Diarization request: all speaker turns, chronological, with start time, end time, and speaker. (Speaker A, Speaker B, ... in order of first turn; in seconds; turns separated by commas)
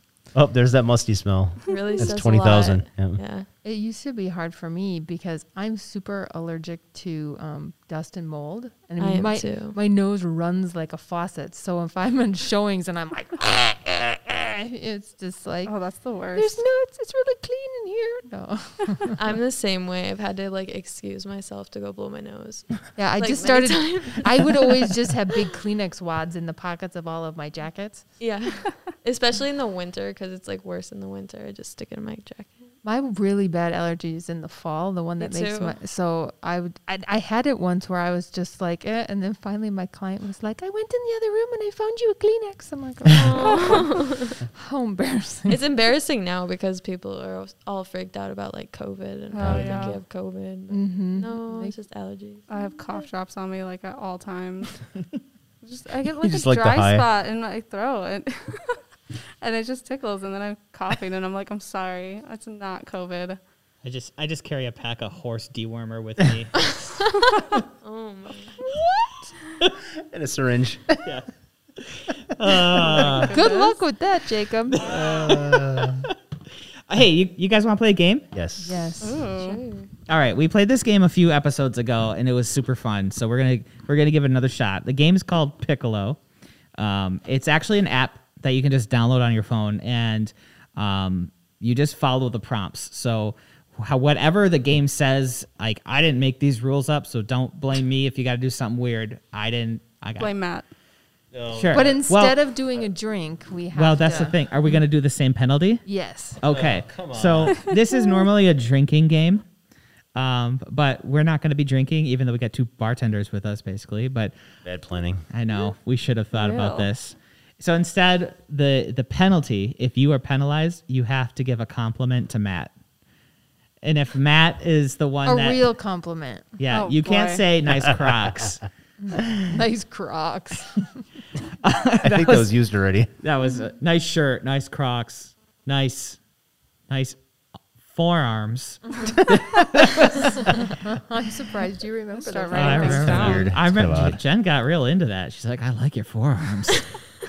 Speaker A: 0.3-3.2, Speaker B: 1.6-3.5, Speaker C: 3.6-15.8, Speaker B: 9.0-9.8, Speaker D: 15.7-16.6, Speaker C: 16.3-19.1, Speaker B: 19.1-24.9, Speaker C: 22.9-28.2, Speaker B: 28.2-32.7, Speaker C: 32.8-45.6, Speaker B: 35.2-35.8, Speaker B: 43.1-44.4, Speaker B: 45.5-53.0, Speaker D: 49.3-50.0, Speaker A: 49.4-49.7, Speaker C: 50.7-51.7, Speaker D: 52.5-54.8, Speaker D: 55.6-58.8, Speaker A: 56.2-57.0, Speaker D: 59.4-63.4, Speaker E: 63.8-66.7, Speaker B: 67.8-68.6, Speaker E: 68.7-69.8, Speaker A: 70.0-71.1, Speaker E: 71.8-73.3, Speaker D: 72.8-73.8, Speaker C: 73.3-74.8, Speaker E: 74.7-76.1, Speaker A: 74.8-76.1, Speaker E: 76.9-78.3, Speaker A: 78.3-78.9, Speaker C: 78.6-79.2, Speaker D: 79.0-79.6, Speaker B: 79.2-79.9, Speaker E: 80.1-86.2, Speaker E: 86.8-100.3, Speaker D: 100.2-100.7, Speaker A: 101.3-102.1, Speaker E: 101.5-102.4, Speaker C: 101.7-104.4, Speaker E: 103.7-105.8, Speaker C: 105.8-106.4, Speaker E: 106.4-109.5, Speaker A: 106.5-107.7, Speaker E: 110.1-114.3, Speaker A: 114.6-115.3, Speaker E: 115.3-122.7, Speaker D: 116.3-116.9, Speaker E: 123.8-125.6, Speaker C: 125.2-126.5, Speaker E: 126.6-128.7, Speaker D: 126.7-127.4, Speaker C: 129.0-131.0, Speaker E: 131.6-132.5, Speaker A: 132.0-133.1, Speaker E: 133.2-136.2, Speaker E: 136.9-137.2, Speaker E: 137.8-139.8, Speaker C: 140.1-143.3, Speaker D: 142.2-143.5, Speaker E: 142.5-147.0, Speaker A: 142.9-144.2